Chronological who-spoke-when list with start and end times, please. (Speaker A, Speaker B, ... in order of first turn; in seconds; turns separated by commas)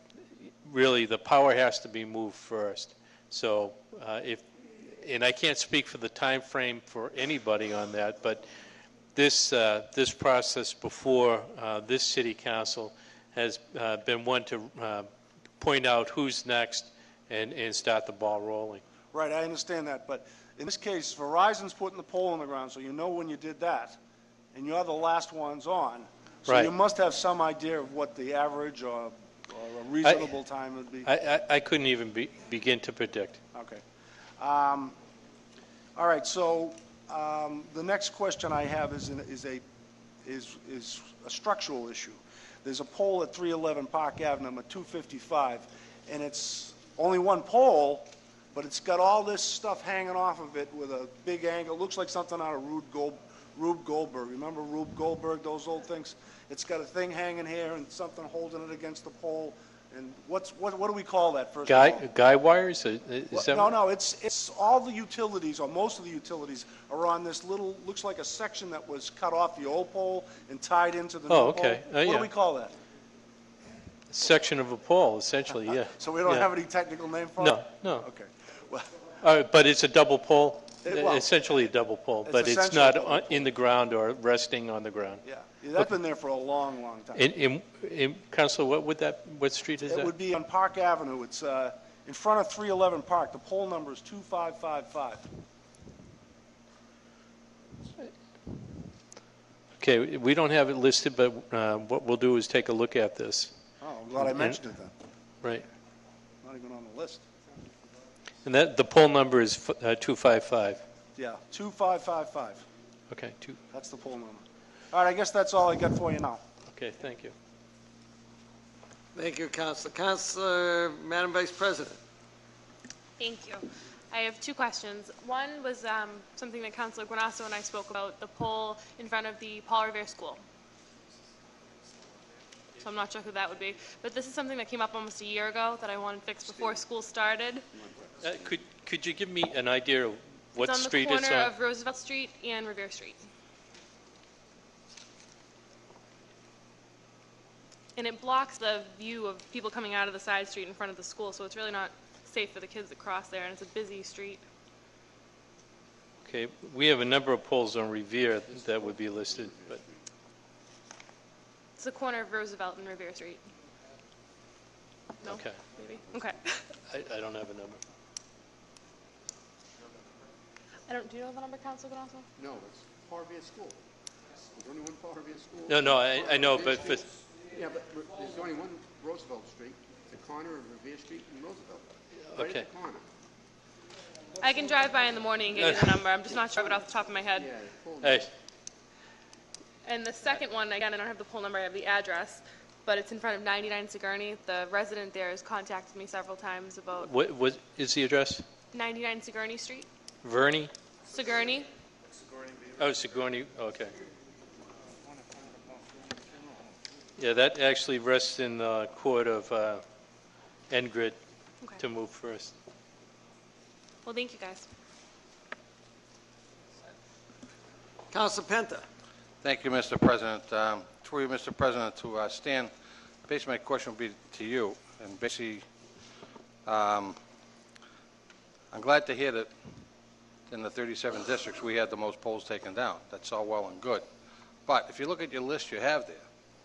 Speaker A: 0.6-8.5, Speaker A: 9.1-15.1, Speaker A: 15.6-18.8, Speaker B: 19.1-24.0, Speaker B: 24.5-31.1, Speaker A: 30.0-30.3, Speaker A: 31.1-33.4, Speaker B: 33.5-33.8, Speaker B: 34.4-35.0, Speaker B: 36.0-39.6, Speaker B: 40.2-62.0, Speaker A: 61.7-63.7, Speaker B: 63.3-72.7, Speaker A: 71.3-72.3, Speaker A: 74.1-76.5, Speaker B: 75.7-78.9, Speaker A: 77.4-78.1, Speaker A: 79.2-85.2, Speaker B: 80.8-81.4, Speaker B: 82.2-83.5, Speaker B: 85.2-87.3, Speaker A: 87.2-90.1, Speaker B: 89.9-95.3, Speaker A: 99.8-103.5, Speaker B: 103.8-104.9, Speaker A: 104.2-104.6, Speaker B: 106.4-107.3, Speaker A: 108.4-110.8, Speaker B: 111.2-112.6, Speaker A: 113.1-113.6, Speaker B: 113.7-116.4, Speaker A: 116.7-117.3, Speaker C: 119.2-122.0, Speaker D: 123.2-130.4, Speaker D: 132.8-137.7, Speaker E: 137.7-138.6, Speaker A: 138.2-141.5, Speaker D: 140.6-143.2, Speaker D: 148.0-154.4, Speaker A: 156.2-159.8, Speaker E: 158.3-160.0, Speaker D: 161.8-163.4, Speaker D: 165.2-166.6, Speaker A: 165.2-165.6, Speaker A: 166.9-167.8, Speaker D: 170.9-172.3, Speaker E: 172.4-173.8, Speaker E: 174.5-183.1, Speaker A: 175.7-177.0, Speaker A: 182.3-182.7, Speaker D: 184.4-187.5, Speaker E: 187.3-188.3, Speaker A: 188.0-188.3, Speaker D: 189.8-197.1, Speaker A: 197.0-198.4, Speaker D: 198.7-199.9, Speaker A: 200.2-200.7, Speaker D: 201.1-201.7, Speaker A: 202.8-203.9, Speaker A: 207.2-209.8, Speaker A: 210.7-211.2, Speaker A: 211.8-212.6, Speaker D: 214.1-214.7, Speaker C: 218.1-218.8, Speaker F: 219.4-222.7, Speaker F: 223.3-225.6, Speaker F: 226.7-227.2, Speaker F: 228.7-229.5, Speaker F: 230.5-234.1, Speaker F: 234.7-236.2